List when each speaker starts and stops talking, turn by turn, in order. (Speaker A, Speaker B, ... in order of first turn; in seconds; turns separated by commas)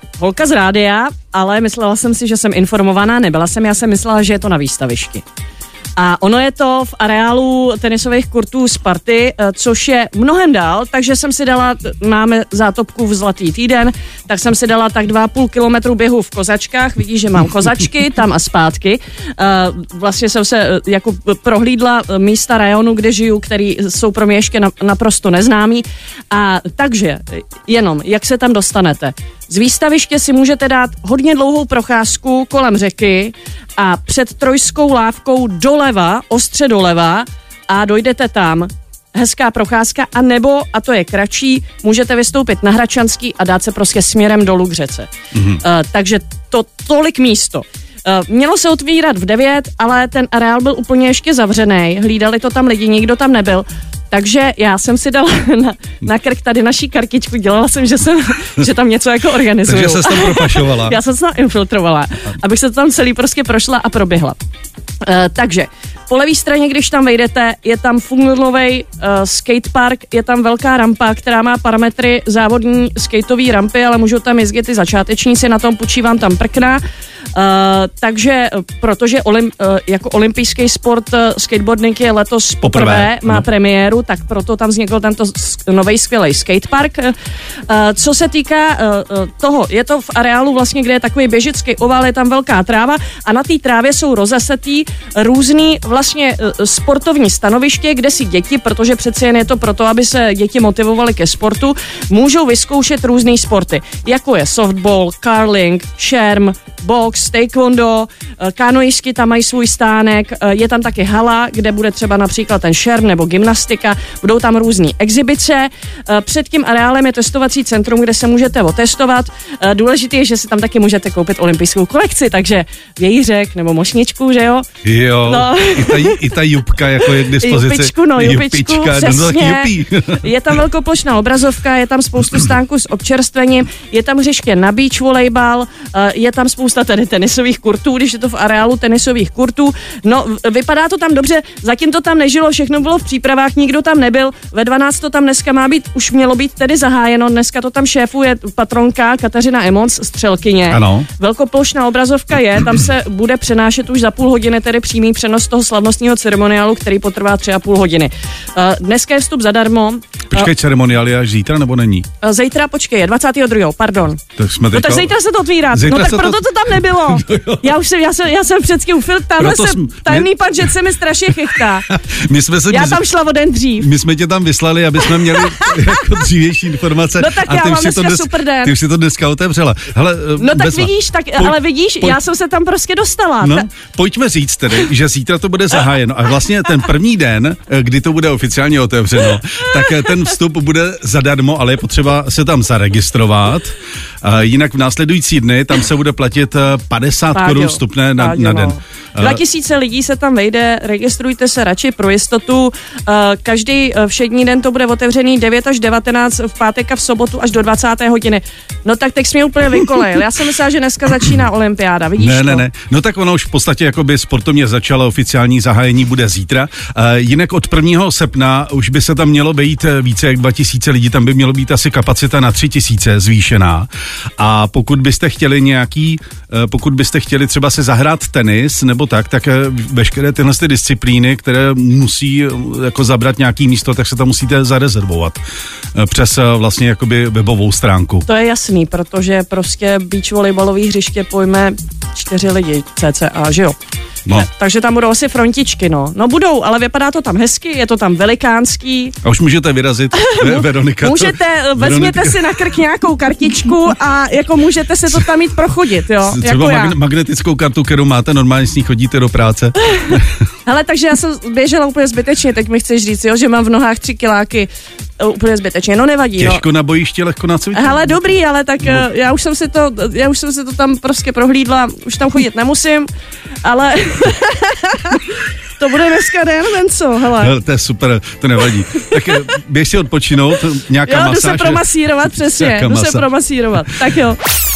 Speaker A: 0.2-5.2, Speaker A: 6.0-64.4, Speaker B: 45.4-45.6, Speaker B: 59.6-61.0, Speaker A: 65.0-76.8, Speaker A: 77.3-87.2, Speaker B: 82.6-83.5, Speaker A: 87.7-124.7, Speaker B: 124.8-130.3, Speaker A: 125.2-126.4, Speaker A: 127.0-160.5, Speaker B: 150.7-151.1, Speaker B: 160.3-162.1, Speaker A: 162.2-164.2, Speaker B: 164.4-165.1, Speaker A: 164.7-171.9, Speaker B: 165.7-167.8, Speaker B: 169.4-170.8, Speaker B: 171.3-173.0, Speaker A: 172.7-173.9, Speaker B: 173.8-182.2, Speaker A: 175.0-176.0, Speaker A: 177.2-178.8, Speaker A: 180.4-183.7, Speaker B: 183.4-199.4, Speaker A: 197.3-212.6, Speaker B: 212.2-235.4, Speaker B: 235.9-238.3, Speaker A: 238.3-243.8, Speaker A: 244.3-249.2, Speaker B: 249.2-252.8, Speaker A: 250.2-256.9, Speaker B: 256.2-260.3, Speaker A: 259.8-266.6, Speaker B: 266.4-268.1, Speaker A: 267.7-273.1, Speaker A: 273.6-277.5, Speaker B: 277.3-283.3, Speaker A: 281.1-284.4